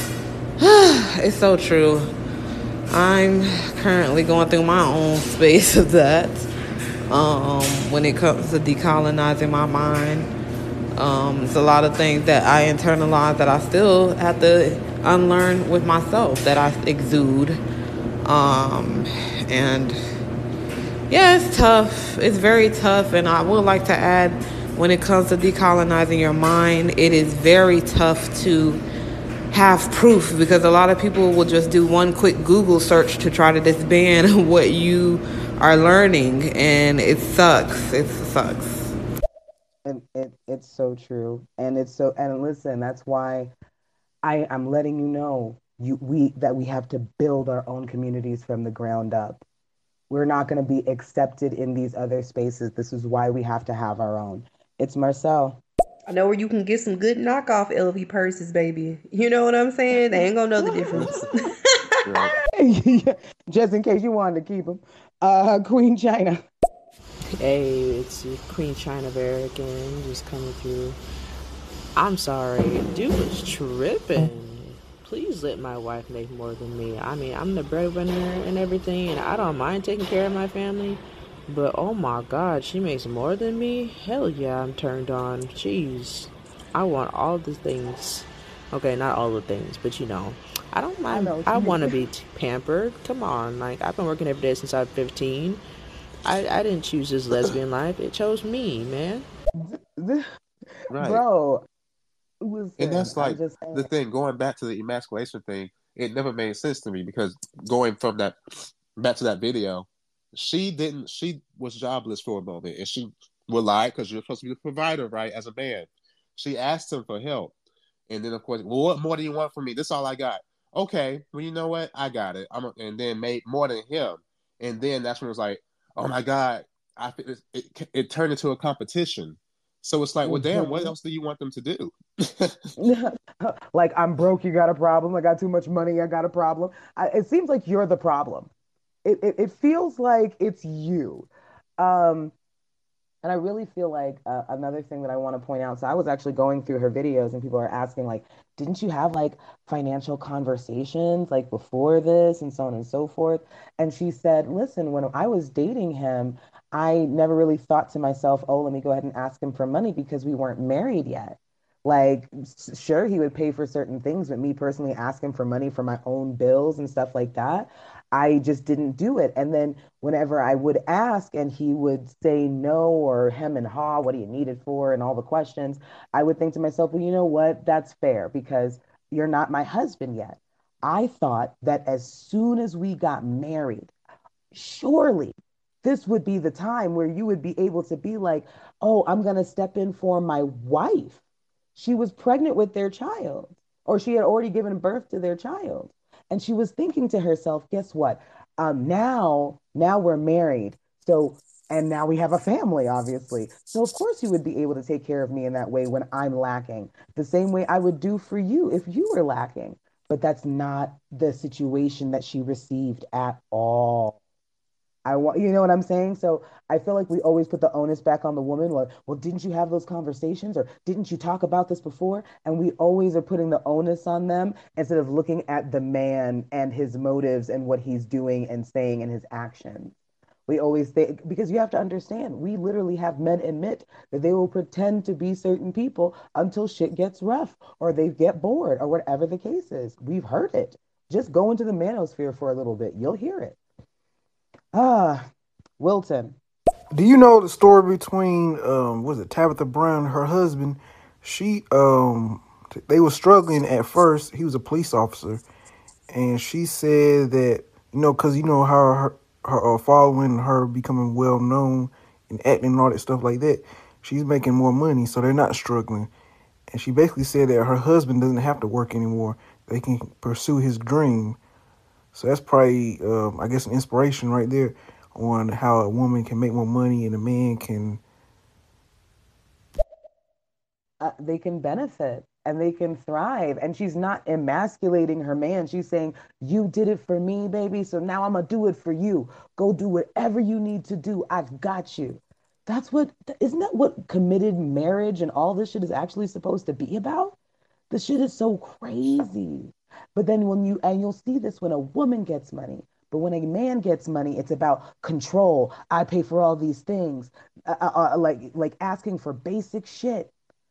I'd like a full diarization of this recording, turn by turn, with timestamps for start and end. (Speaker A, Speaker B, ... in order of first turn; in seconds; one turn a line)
Speaker A: 0.6-2.1
Speaker A: 2.9-6.4
Speaker A: 7.1-10.3
Speaker A: 10.9-17.6
Speaker A: 18.2-20.0
Speaker A: 21.1-28.8
Speaker A: 29.5-38.9
Speaker B: 39.8-43.5
Speaker B: 44.2-49.4
Speaker B: 50.1-55.6
Speaker C: 56.1-61.2
Speaker B: 60.6-61.2
Speaker D: 60.9-61.2
Speaker D: 62.0-62.4
Speaker B: 62.5-66.4
Speaker E: 67.4-71.0
Speaker E: 71.9-95.6
Speaker B: 91.1-91.9
Speaker E: 96.2-99.3
Speaker B: 99.6-100.2
Speaker D: 100.9-101.2
Speaker B: 100.9-101.6
Speaker B: 102.4-103.9
Speaker D: 102.8-117.5
Speaker D: 118.1-132.6
Speaker B: 130.2-130.9
Speaker B: 132.8-138.5
Speaker B: 139.0-142.3
Speaker B: 143.2-183.9
Speaker B: 184.5-191.2
Speaker B: 191.8-214.2
Speaker B: 215.0-229.9
Speaker B: 230.5-243.6
Speaker B: 244.7-245.2
Speaker B: 245.8-246.3
Speaker F: 246.9-255.4
Speaker F: 256.1-266.1
Speaker F: 266.7-271.4
Speaker F: 272.1-278.0
Speaker B: 281.0-297.3
Speaker B: 297.9-310.3